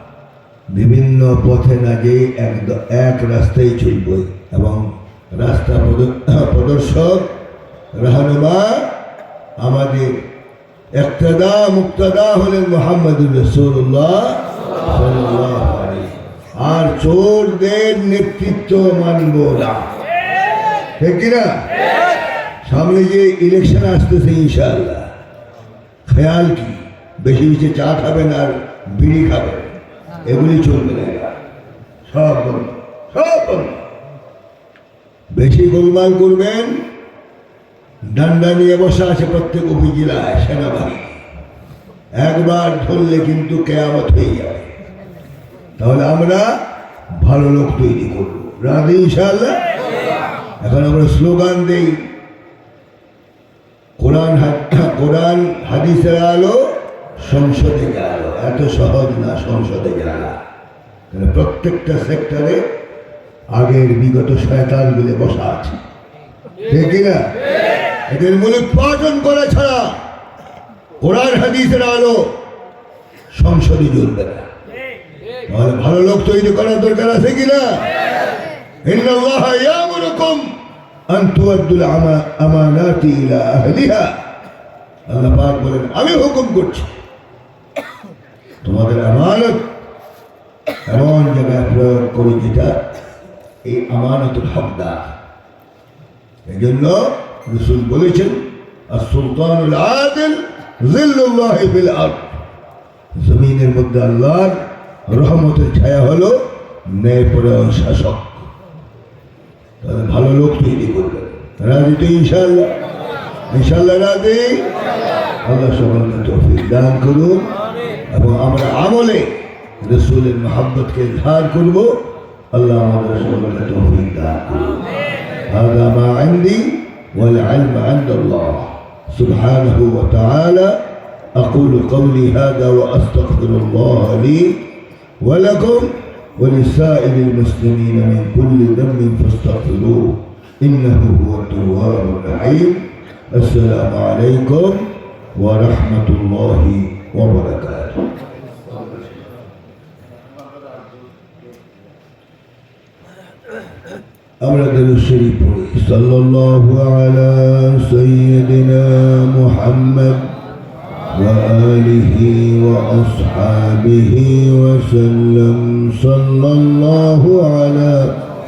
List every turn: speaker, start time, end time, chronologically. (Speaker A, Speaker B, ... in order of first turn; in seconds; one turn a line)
Speaker A: 0.7-7.3
Speaker A: 7.9-8.9
Speaker A: 9.6-10.2
Speaker A: 10.9-19.9
Speaker A: 21.0-21.7
Speaker A: 22.6-25.1
Speaker A: 26.1-29.7
Speaker A: 30.2-31.4
Speaker A: 32.1-33.8
Speaker A: 35.3-36.8
Speaker A: 38.0-41.2
Speaker A: 42.2-44.7
Speaker A: 45.8-46.5
Speaker A: 47.2-49.6
Speaker A: 50.6-52.0
Speaker A: 54.0-60.4
Speaker A: 61.1-62.7
Speaker A: 63.5-65.8
Speaker A: 66.7-67.3
Speaker A: 68.1-70.0
Speaker A: 71.0-72.3
Speaker A: 73.3-74.5
Speaker A: 75.5-77.8
Speaker A: 78.8-80.5
Speaker A: 81.1-84.1
Speaker A: 85.1-86.9
Speaker A: 88.6-89.7
Speaker A: 90.9-92.8
Speaker A: 93.7-95.1
Speaker A: 96.5-102.4
Speaker A: 103.2-108.5
Speaker A: 109.8-112.7
Speaker A: 113.5-114.7
Speaker A: 115.4-117.5
Speaker A: 118.1-119.3
Speaker A: 119.8-122.0
Speaker A: 122.5-124.8
Speaker A: 125.5-130.8
Speaker A: 131.4-134.6
Speaker A: 135.2-148.1
Speaker A: 154.4-160.3
Speaker A: 161.1-168.2